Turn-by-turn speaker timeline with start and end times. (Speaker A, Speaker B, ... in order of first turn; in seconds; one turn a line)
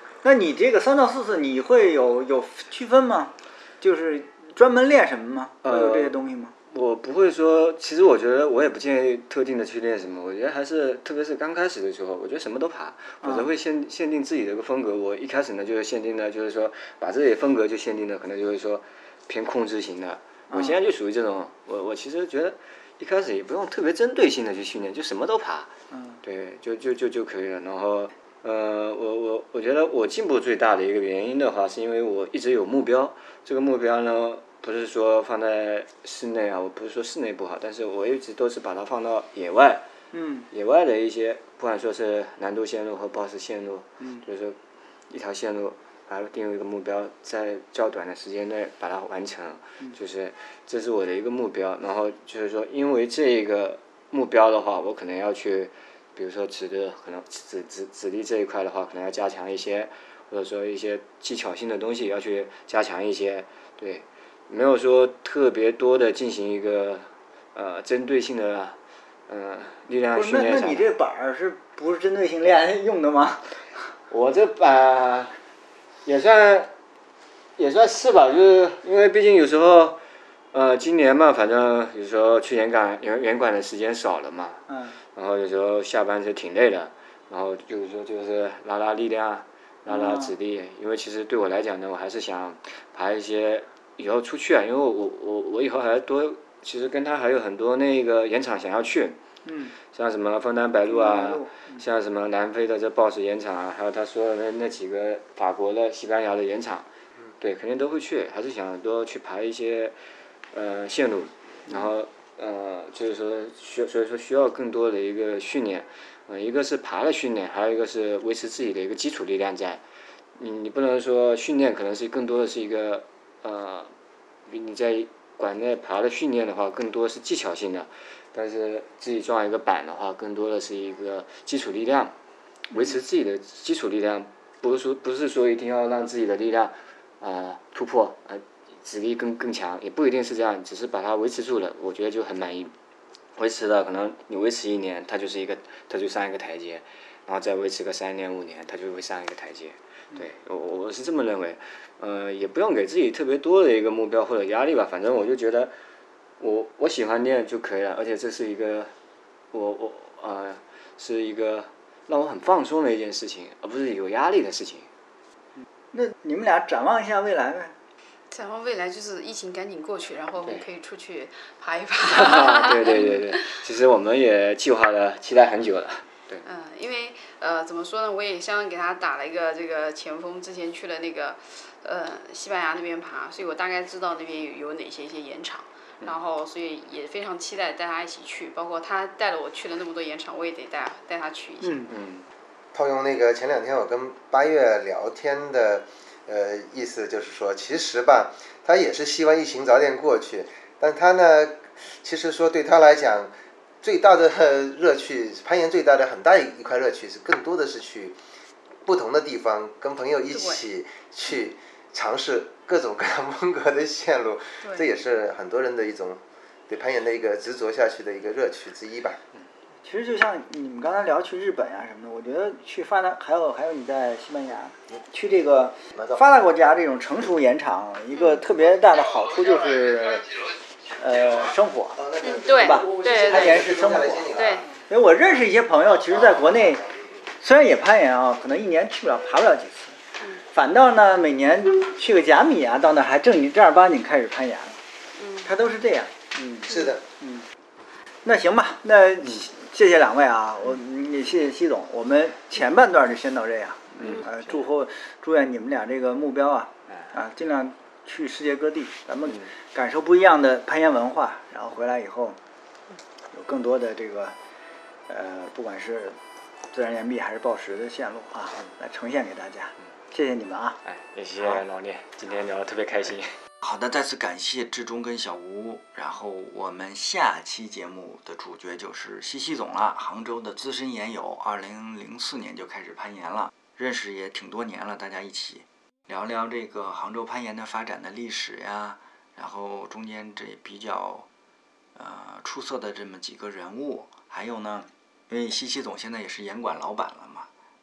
Speaker A: 0.2-6.5
Speaker B: 5.6-6.2
Speaker B: 6.7-25.7
Speaker A: 25.9-26.2
Speaker B: 26.2-39.8
Speaker A: 40.1-40.5
Speaker B: 40.5-44.6
Speaker B: 45.1-68.8
Speaker B: 69.3-70.8
Speaker A: 70.1-73.5
Speaker B: 74.1-75.3
Speaker B: 76.0-76.7
Speaker B: 77.6-80.0
Speaker B: 80.5-99.2
Speaker A: 84.7-84.9
Speaker A: 89.9-90.2
Speaker A: 99.4-99.7
Speaker B: 99.9-106.8
Speaker A: 100.9-101.8
Speaker B: 107.4-109.9
Speaker B: 110.5-119.8
Speaker B: 120.3-123.9
Speaker B: 124.5-132.1
Speaker B: 132.7-142.7
Speaker B: 143.4-155.7
Speaker B: 156.4-158.9
Speaker B: 159.5-164.9
Speaker A: 165.9-167.7
Speaker C: 168.3-173.4
Speaker B: 172.1-176.4
Speaker C: 176.4-191.9
Speaker A: 191.6-191.9
Speaker B: 191.9-192.2
Speaker D: 192.7-208.2
Speaker D: 208.8-219.2
Speaker C: 210.3-210.6
Speaker A: 219.8-230.3
Speaker C: 228.1-228.4
Speaker A: 231.0-236.8
Speaker D: 232.0-234.6
Speaker C: 232.2-233.5
Speaker C: 234.3-234.7
Speaker A: 237.4-240.0
Speaker A: 240.5-244.8
Speaker C: 245.2-245.5
Speaker A: 245.4-247.4
Speaker D: 246.7-247.0
Speaker A: 248.2-262.4
Speaker A: 263.3-264.3
Speaker A: 265.1-266.1
Speaker A: 266.7-270.8
Speaker B: 270.8-273.3
Speaker E: 273.6-291.3
Speaker E: 291.9-297.5